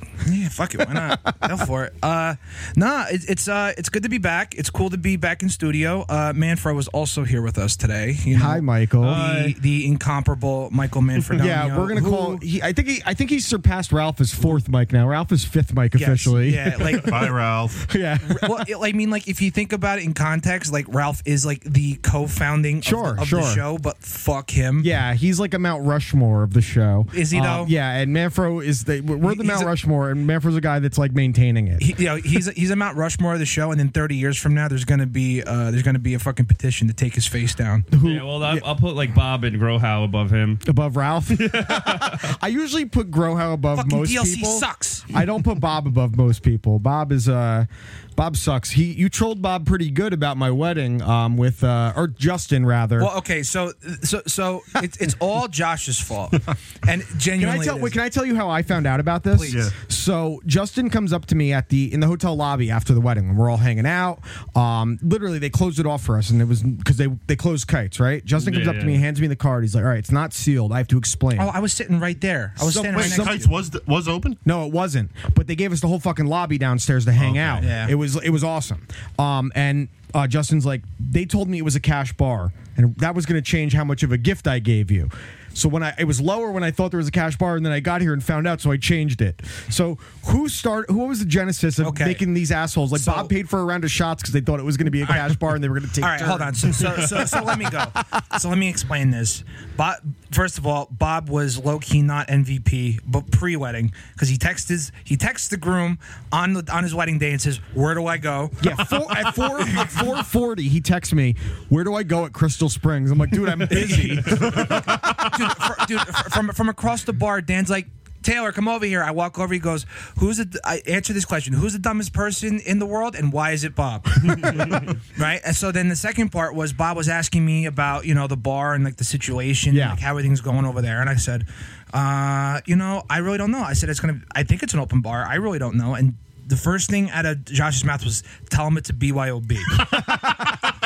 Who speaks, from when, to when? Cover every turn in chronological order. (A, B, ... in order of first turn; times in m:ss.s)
0:00.2-0:12.4 A
0:01.1-0:01.5 B
0:08.3-0:09.4 B
0:09.1-0:09.5 C
0:11.4-0:18.7 B
0:16.0-0:17.4 A
0:16.9-0:17.8 D
0:18.2-0:24.9 A
0:22.8-0:23.6 B
0:24.8-0:31.9 B
0:27.1-0:27.7 A
0:29.2-0:29.7 A
0:31.8-0:37.9 A
0:37.9-0:38.7 B
0:38.0-0:40.6 C
0:40.6-0:53.1 B
0:41.3-0:42.3 C
0:43.7-0:45.2 A
0:53.0-0:58.0 A
0:57.4-1:11.5 B
0:59.3-0:59.6 A
0:59.5-0:59.8 D
1:08.4-1:09.0 C
1:11.4-1:13.5 A
1:12.6-1:13.4 B
1:12.9-1:14.4 D
1:14.4-1:37.3 B
1:17.2-1:17.7 D
1:17.6-1:17.9 A
1:31.8-1:32.2 A
1:33.0-1:33.3 A
1:35.0-1:35.4 A
1:36.0-1:49.9 A
1:48.6-1:55.0 B
1:53.7-2:19.9 A
1:53.8-1:54.3 C
1:54.4-1:55.3 D
2:04.3-2:04.7 C
2:09.7-2:10.0 B
2:19.7-2:20.7 B